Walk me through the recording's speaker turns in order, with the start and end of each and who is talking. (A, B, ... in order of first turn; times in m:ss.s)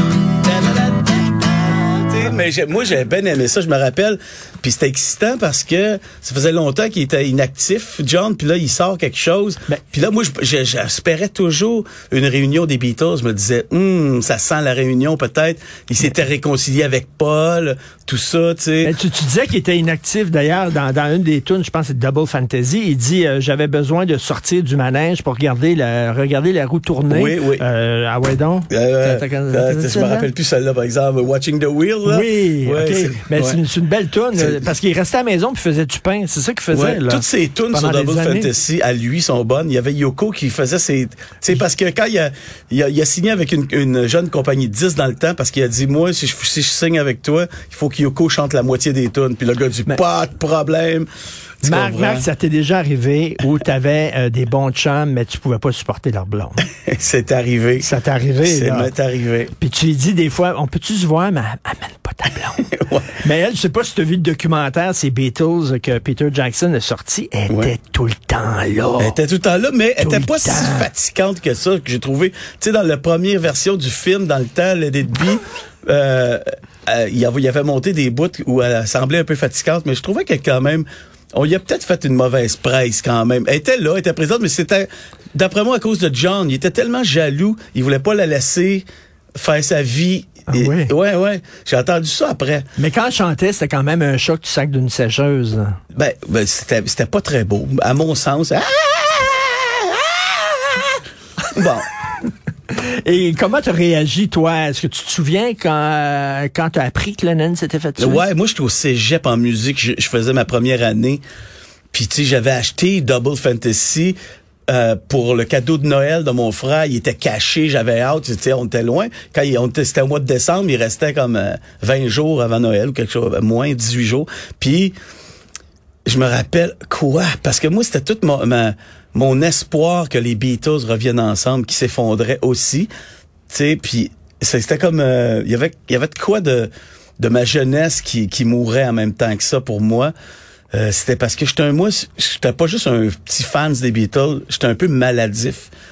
0:00.4-0:18.9 A
0:18.8-0:30.3 B
0:27.1-0:27.6 A
0:28.7-0:33.6 A
0:32.0-0:38.5 B
0:34.3-0:34.7 A
0:36.7-0:51.1 A
0:51.6-0:52.3 A
0:51.6-0:56.6 B
0:56.8-0:57.9 A
0:57.8-0:58.9 B
0:58.4-0:59.5 A
0:59.6-1:09.2 B
1:02.6-1:03.2 A
1:09.0-1:28.8 A
1:10.0-1:10.9 B
1:29.4-1:32.7 A
1:30.5-1:30.9 B
1:32.8-1:35.8 B
1:35.9-1:40.2 A
1:41.5-1:41.9 A
1:42.7-1:48.2 B
1:48.0-1:51.2 A
1:51.9-1:54.2 A
1:54.7-2:05.0 A
2:06.0-2:12.9 A
2:13.5-2:20.1 A
2:20.7-2:25.7 A